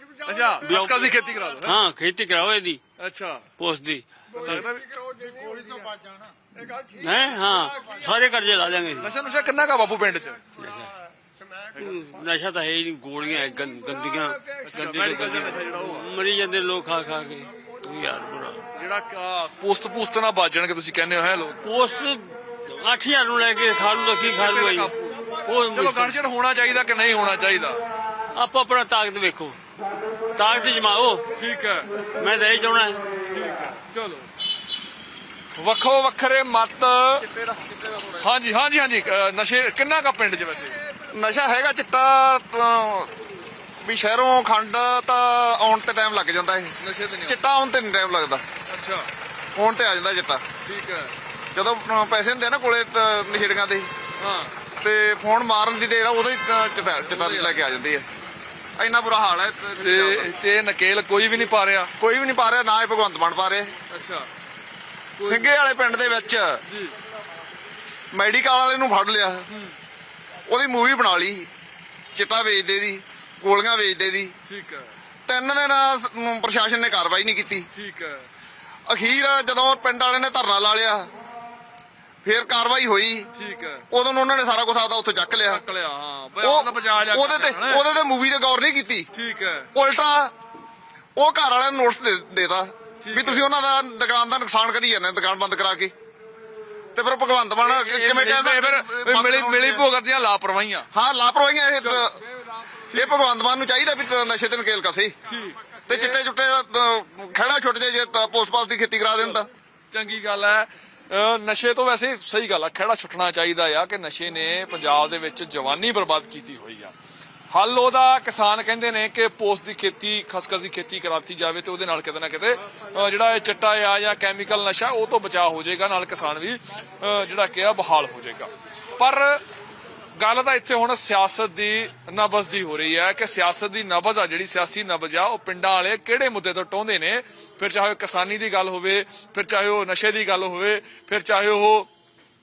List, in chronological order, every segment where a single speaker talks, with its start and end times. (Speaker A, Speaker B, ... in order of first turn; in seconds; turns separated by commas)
Speaker A: 0.2-1.8, Speaker B: 0.6-2.8, Speaker A: 3.0-3.5, Speaker B: 3.6-4.7, Speaker A: 4.3-4.9, Speaker B: 6.8-9.1, Speaker A: 9.0-10.4, Speaker B: 10.6-10.9, Speaker B: 11.8-18.6, Speaker A: 14.6-16.1, Speaker A: 18.7-21.6, Speaker B: 21.6-24.9, Speaker A: 24.2-27.8, Speaker B: 25.4-26.1, Speaker B: 28.4-29.6, Speaker B: 30.3-31.2, Speaker A: 31.4-31.9, Speaker B: 32.2-33.0, Speaker A: 33.3-34.3, Speaker A: 35.6-37.2, Speaker C: 37.2-38.3, Speaker A: 38.2-40.8, Speaker C: 41.1-43.1, Speaker C: 43.8-46.7, Speaker A: 46.8-47.4, Speaker C: 47.2-48.4, Speaker A: 48.7-49.1, Speaker C: 49.5-50.4, Speaker A: 50.6-51.1, Speaker C: 51.5-53.9, Speaker A: 54.2-54.5, Speaker C: 54.8-58.0, Speaker A: 57.0-57.6, Speaker C: 58.8-60.3, Speaker A: 59.8-61.9, Speaker C: 62.0-63.7, Speaker A: 63.9-64.3, Speaker A: 65.2-65.5, Speaker C: 65.2-66.6, Speaker A: 66.7-66.9, Speaker C: 68.1-69.5, Speaker A: 69.5-69.8, Speaker C: 70.5-71.5, Speaker C: 72.2-74.3, Speaker A: 74.5-74.9, Speaker C: 75.3-77.7, Speaker A: 77.7-78.3, Speaker C: 78.9-81.1, Speaker C: 82.2-83.3, Speaker A: 83.3-83.8, Speaker C: 83.9-85.6, Speaker A: 85.5-87.8, Speaker C: 86.4-89.1, Speaker A: 89.1-89.7, Speaker C: 89.7-90.3, Speaker C: 91.2-95.9, Speaker A: 93.0-93.4, Speaker C: 96.9-99.8, Speaker A: 97.6-100.9, Speaker C: 100.9-102.2, Speaker A: 102.9-103.2, Speaker C: 102.9-105.1, Speaker A: 105.2-106.2, Speaker C: 105.9-109.5, Speaker A: 109.9-116.9, Speaker A: 117.5-129.4, Speaker A: 130.2-141.9